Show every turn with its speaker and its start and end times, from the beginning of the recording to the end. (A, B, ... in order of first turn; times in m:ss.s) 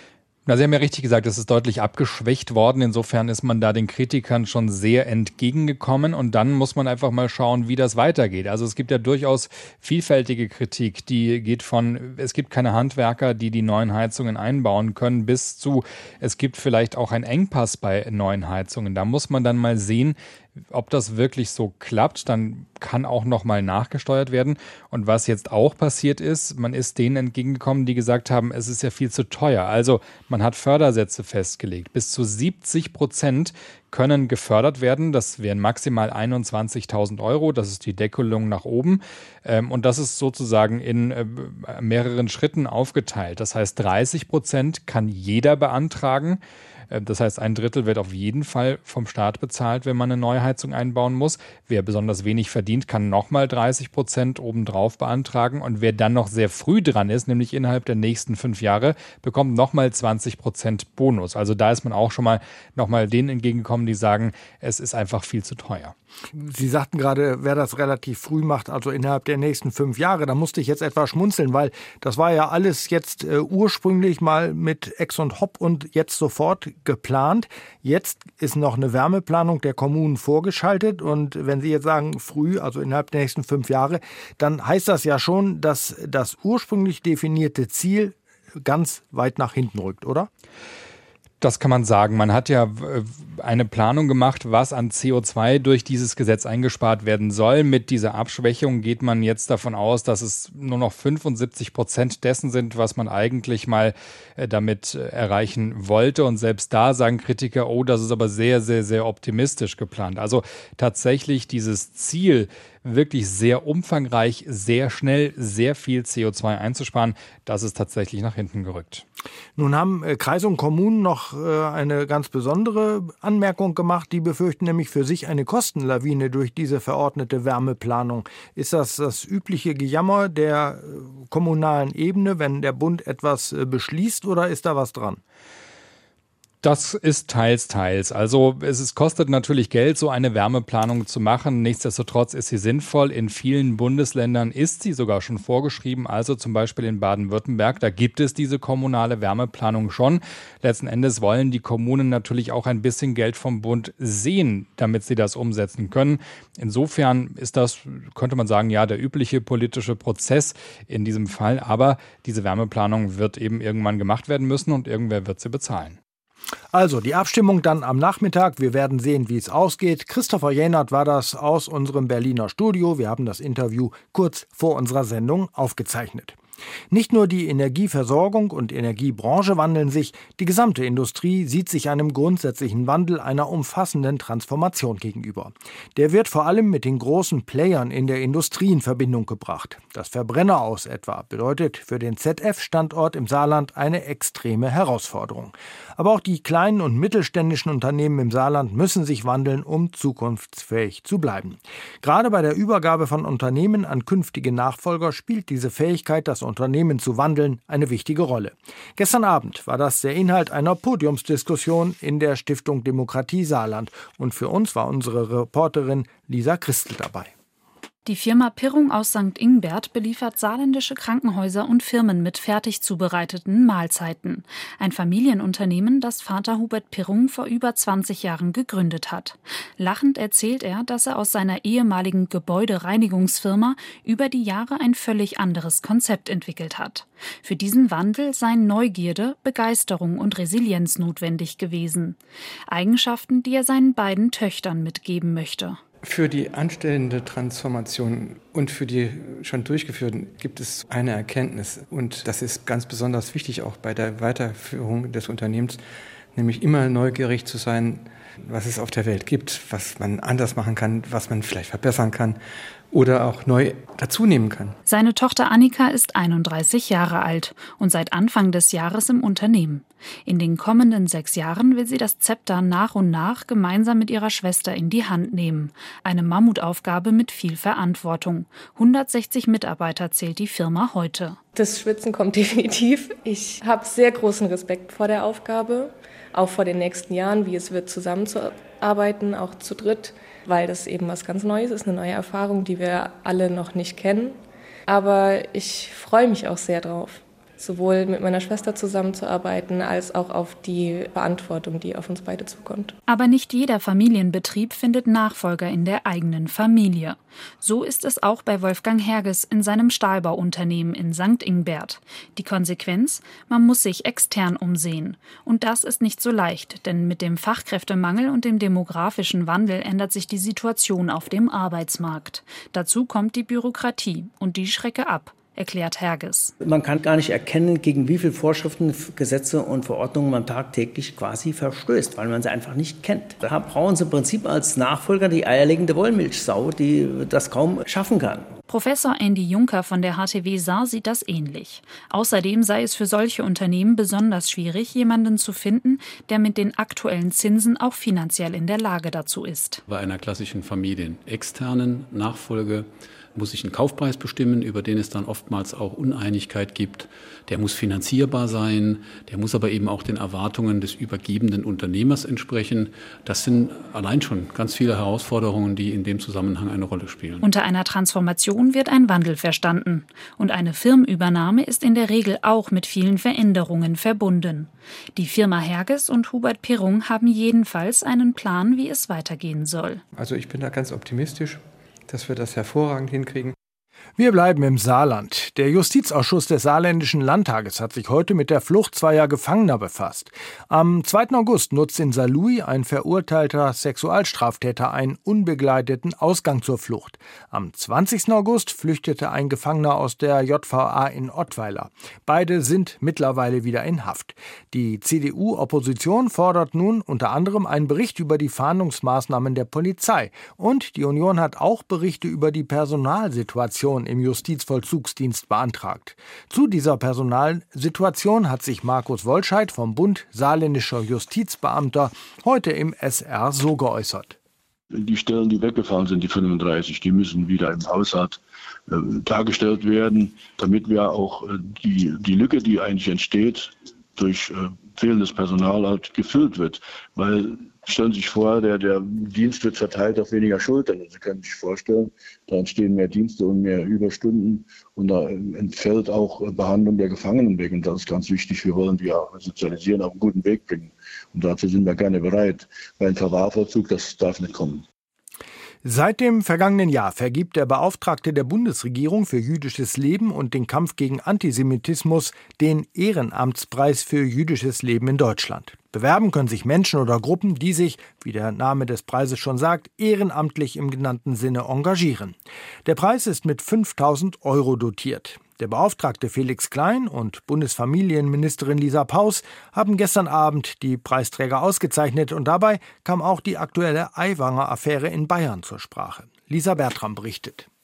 0:00.4-0:20.2 A
0:20.7-0:46.4 A
0:46.9-1:05.9 A
1:06.3-1:30.3 B
1:31.4-1:59.0 A
1:59.6-2:15.2 B
2:16.6-2:46.0 A
2:46.7-2:56.4 B
2:56.9-3:37.3 B
3:38.0-4:05.8 C
4:06.0-4:24.8 D
4:24.8-4:41.4 C
4:41.5-4:54.4 E
4:54.9-5:03.0 E
5:03.1-5:26.5 C
5:26.6-5:38.5 F
5:38.7-5:49.8 C
5:49.9-6:07.4 G
6:07.4-6:20.0 C
6:20.1-6:23.5 D
6:24.2-7:04.4 B
7:04.9-7:34.8 H
7:35.8-8:07.7 B